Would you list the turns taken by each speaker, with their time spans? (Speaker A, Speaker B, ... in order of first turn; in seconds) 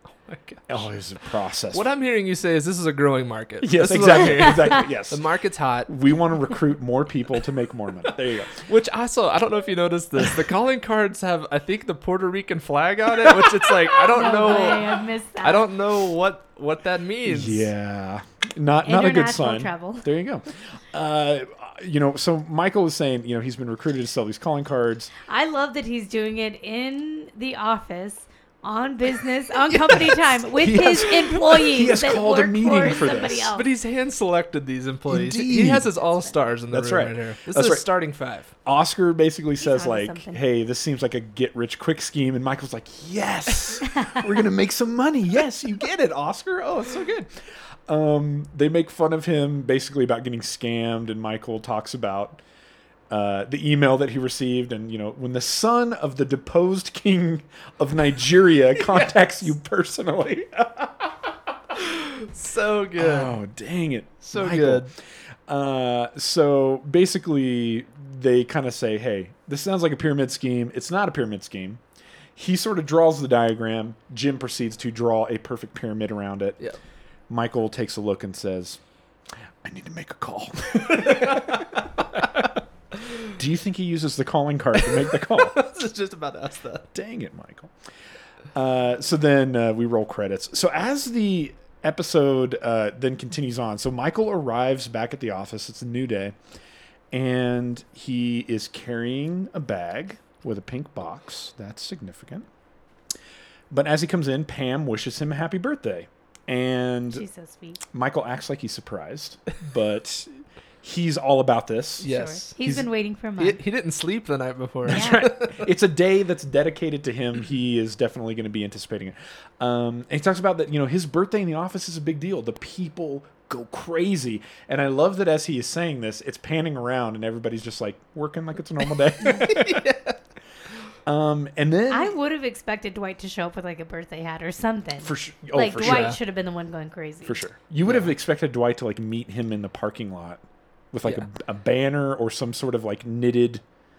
Speaker A: 0.2-0.9, 1.7-5.9, 8.6-17.7, 33.5-38.5, 58.8-59.4, 61.8-63.3, 64.2-64.9, 80.9-81.8, 85.3-86.9, 112.0-112.5, 113.4-115.7, 129.4-130.2, 135.8-136.2, 137.8-138.1
Speaker B: 0.7-1.9, 3.6-5.2, 5.9-8.7, 17.2-25.1, 30.5-33.5, 35.1-35.9, 36.7-37.9, 38.6-52.4, 53.1-61.2, 63.0-64.9, 65.5-71.8, 72.4-76.6, 77.3-78.8, 79.6-82.5, 83.4-85.6, 86.9-87.7, 88.5-96.4, 97.1-102.5, 103.7-107.2, 107.9-110.3, 110.8-112.9, 114.9-129.9, 131.1-132.1, 135.0-136.2, 137.2-143.6
Speaker C: 14.0-15.7, 18.8-20.1, 25.2-33.7, 36.0-36.3, 39.6-40.4, 43.8-44.3, 107.1-107.8, 112.0-113.6, 114.9-115.3, 131.9-137.4